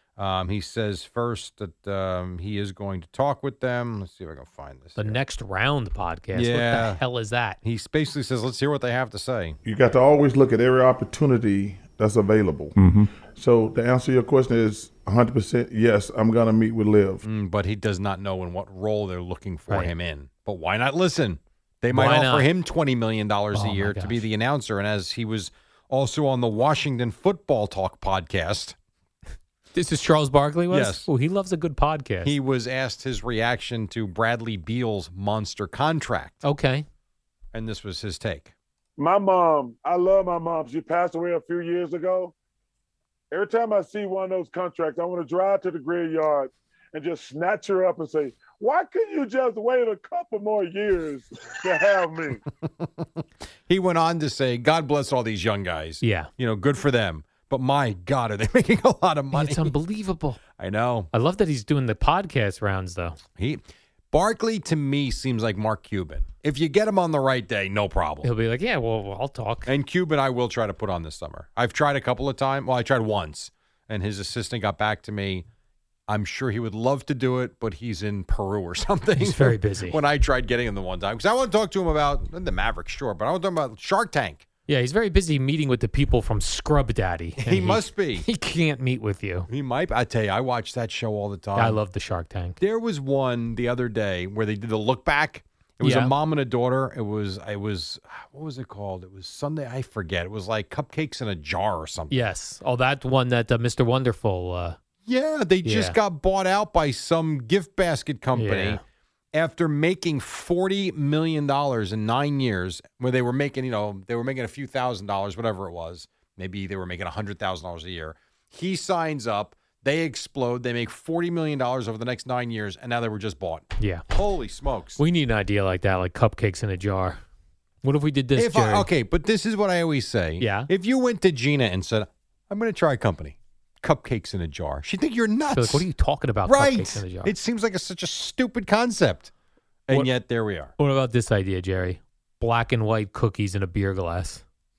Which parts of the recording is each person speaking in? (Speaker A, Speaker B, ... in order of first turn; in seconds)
Speaker A: 0.2-5.2, 6.3-7.0, 7.6-9.6, 17.2-28.8, 30.7-31.1, 32.2-36.4, 37.5-38.5, 53.7-59.8, 60.6-61.1, 63.4-68.3, 69.7-75.4, 76.1-84.4, 87.4-88.2, 89.5-91.8, 92.6-102.1, 105.0-108.8, 109.3-125.0, 128.3-135.9, 136.4-139.3, 139.9-140.7
Speaker B: 5.0-7.6, 21.9-22.5, 23.5-24.2, 29.7-32.3, 36.4-36.9, 56.0-56.3, 59.3-60.4, 61.1-63.2, 68.2-69.7, 79.2-80.0, 84.7-89.5, 91.5-92.6, 95.8-96.1, 102.1-104.8, 105.6-106.0, 108.3-108.8, 123.8-124.0, 125.0-127.2, 127.8-128.9, 130.4-130.7, 135.5-137.3, 140.8-144.4
Speaker C: 9.6-17.2, 39.0-40.2, 40.8-41.6, 43.3-46.4, 47.0-52.4
Speaker D: 39.0-42.3, 43.3-51.2, 51.8-52.3